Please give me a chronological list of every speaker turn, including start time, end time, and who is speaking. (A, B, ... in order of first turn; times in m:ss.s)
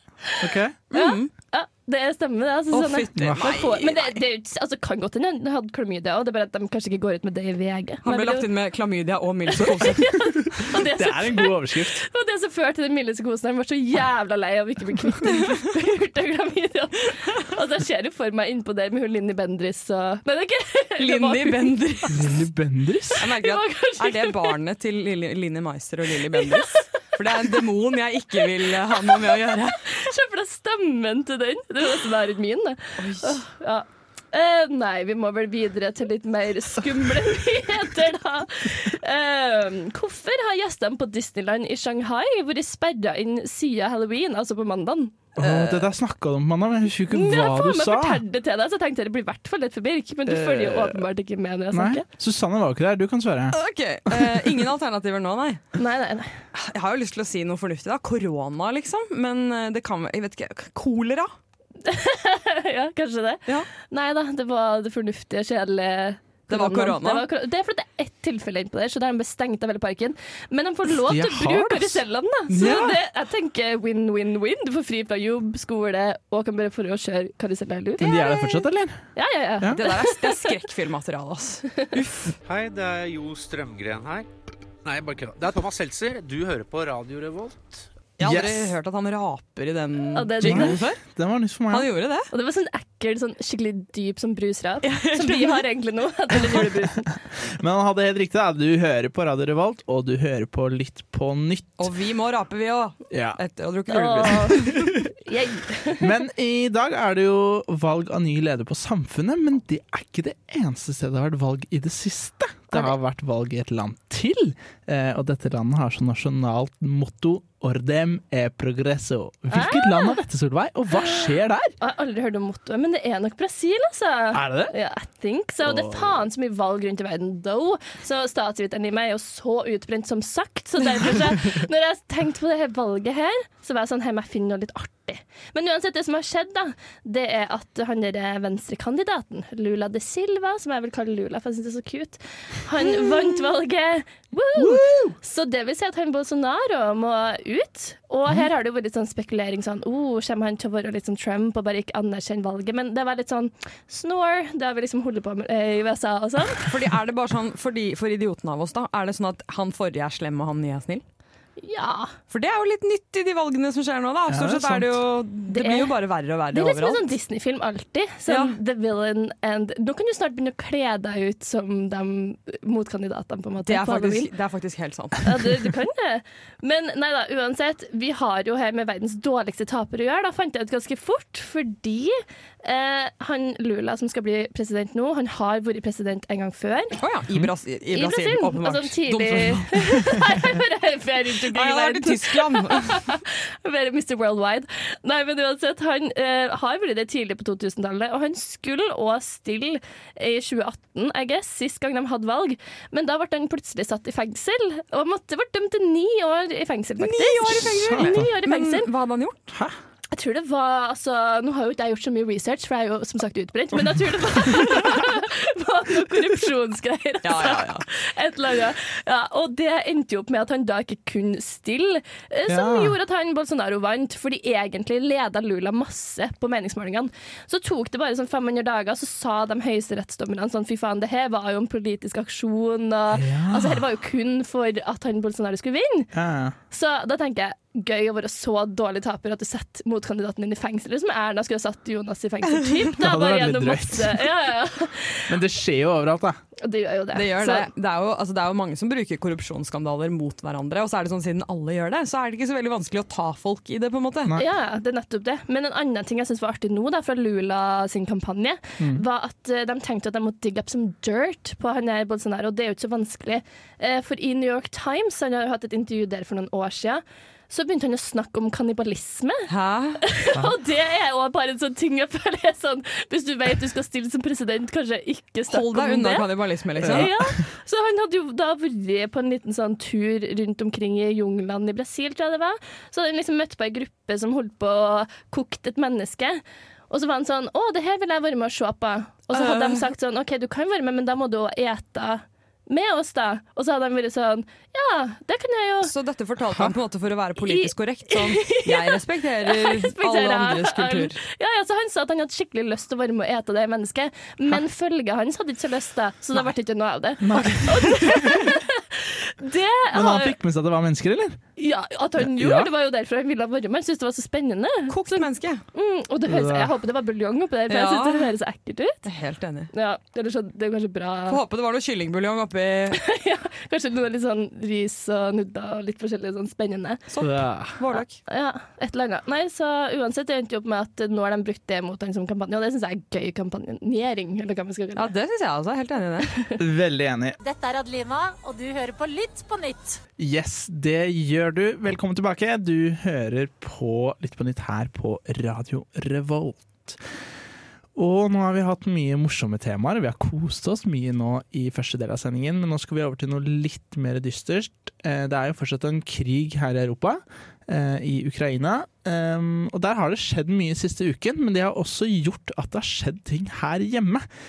0:00.4-0:00.8 A
0:00.9-0:01.3 B
0:00.9-0:08.5 C
0:02.7-0:04.2 B
0:03.2-0:03.5 A
0:08.0-0:10.1 B
0:09.6-0:21.7 C
0:10.3-0:12.0 A
0:21.0-0:22.3 B
0:22.1-0:23.3 A
0:23.2-0:29.9 B
0:23.3-0:24.6 C
0:26.4-0:26.8 C
0:28.9-0:29.1 C
0:29.8-0:45.7 C
0:33.0-0:33.4 B
0:45.4-0:48.2 A
0:47.1-0:52.0 C
0:50.3-0:51.0 A
0:51.7-0:53.6 A
0:53.5-0:55.6 B
0:54.1-0:54.6 A
0:55.8-0:56.3 C
0:56.6-1:01.3 B
1:01.8-1:20.5 C
1:06.5-1:07.3 B
1:10.9-1:13.0 A
1:18.0-1:19.0 A
1:19.7-1:22.3 B
1:22.4-1:24.3 D
1:24.8-1:27.8 D
1:28.2-1:31.0 B
1:28.2-1:28.8 A
1:30.1-1:30.8 C
1:30.4-1:31.9 A
1:31.7-1:32.3 B
1:32.3-1:37.1 C
1:34.8-1:35.6 B
1:37.1-1:41.9 A
1:41.8-1:45.0 B
1:43.1-1:43.4 A
1:43.9-1:46.1 C
1:46.0-2:01.8 A
1:59.5-2:00.2 C
2:01.8-2:36.7 C
2:04.3-2:04.7 A
2:05.6-2:06.1 A
2:36.6-2:41.0 B
2:41.6-2:42.1 C
2:42.3-2:47.1 B
2:44.3-2:45.0 A
2:45.5-2:45.9 C
2:46.5-2:54.3 C
2:48.3-2:48.6 B
2:53.7-2:55.4 B
2:55.2-3:07.0 C
3:07.0-3:09.9 B
3:07.9-3:28.9 C
3:11.5-3:13.0 B
3:27.0-3:29.5 B
3:27.6-3:28.3 A
3:30.1-3:56.1 C
3:37.2-3:37.8 B
3:42.5-3:43.0 A
3:53.1-3:53.8 A
3:56.1-3:56.6 A
3:56.7-4:05.3 C
4:02.9-4:04.3 A
4:05.3-4:06.4 A
4:06.6-4:07.7 C
4:07.1-4:14.4 B
4:14.4-4:29.5 C
4:29.5-4:30.0 B
4:30.0-4:55.9 C
4:35.5-4:37.1 B
4:36.8-4:37.3 A
4:49.3-4:49.9 B
4:55.8-5:01.2 B
4:57.4-5:10.4 C
5:07.2-5:08.5 A
5:09.9-5:11.4 A
5:11.6-5:19.0 C
5:12.2-5:12.7 A
5:14.9-5:15.6 B
5:16.3-5:16.7 A
5:17.7-5:18.3 B
5:19.0-5:19.7 B
5:19.7-5:21.4 C
5:21.3-5:23.0 B
5:22.9-5:27.0 C
5:27.1-5:28.2 B
5:27.2-5:27.8 A
5:28.3-5:35.1 C
5:35.0-5:36.3 B
5:36.6-5:37.4 A
5:37.4-5:40.0 E
5:40.2-5:47.0 A
5:48.0-6:04.3 A